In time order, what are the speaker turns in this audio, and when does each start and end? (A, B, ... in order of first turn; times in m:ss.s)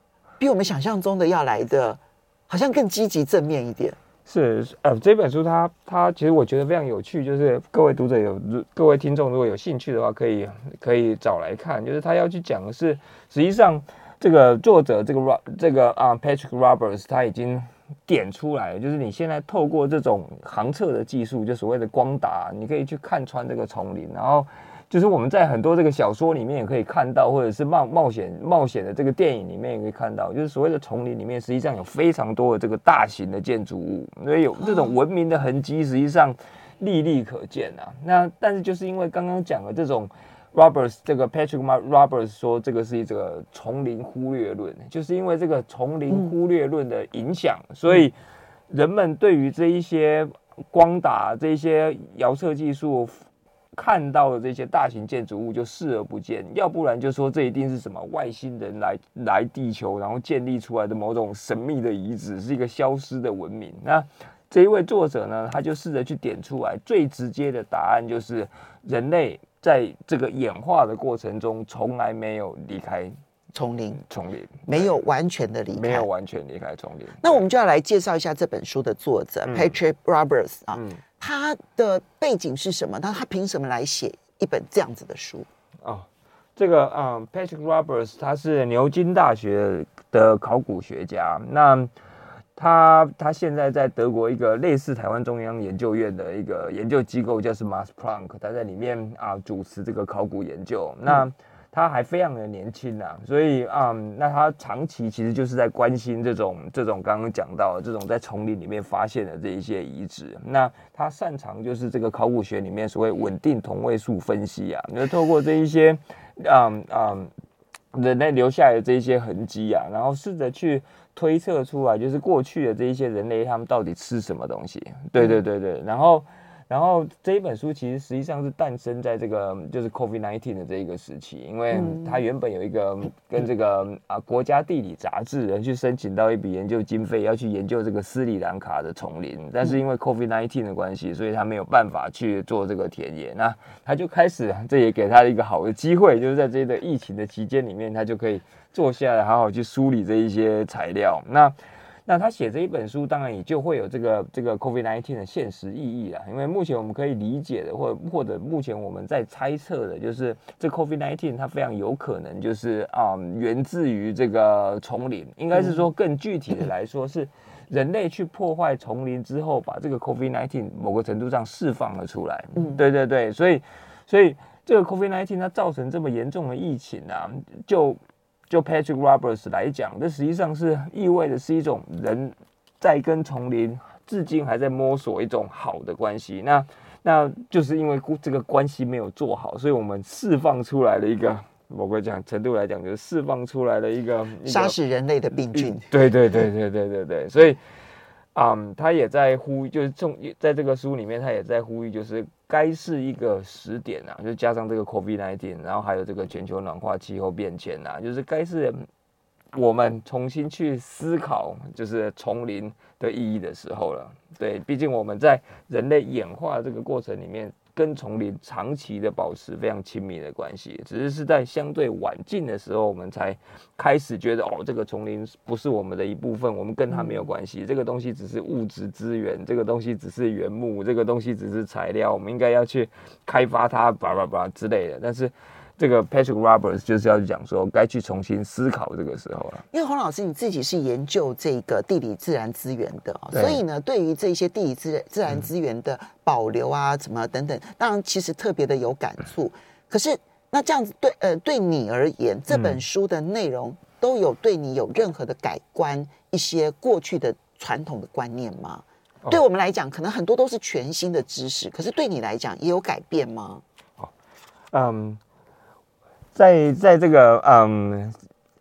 0:00.4-0:04.0 A
0:04.3-0:48.2 B
0:34.6-0:35.0 A
0:48.7-0:53.2 B
0:53.8-1:13.2 B
1:13.5-1:14.0 A
1:14.0-1:14.9 B
1:14.7-1:16.1 A
1:15.7-1:17.4 B
1:17.2-1:25.5 A
1:19.5-1:19.8 B
1:20.7-1:21.0 B
1:25.8-1:31.9 B
1:32.6-1:57.3 B
1:57.9-3:14.8 B
2:11.7-2:12.2 A
3:14.4-3:15.9 A
3:15.5-3:17.6 B
3:18.4-3:28.9 B
3:29.5-3:59.6 B
3:46.9-3:47.3 A
3:59.7-4:23.6 A
4:03.3-4:03.6 B
4:24.7-4:25.2 B
4:26.4-4:28.2 B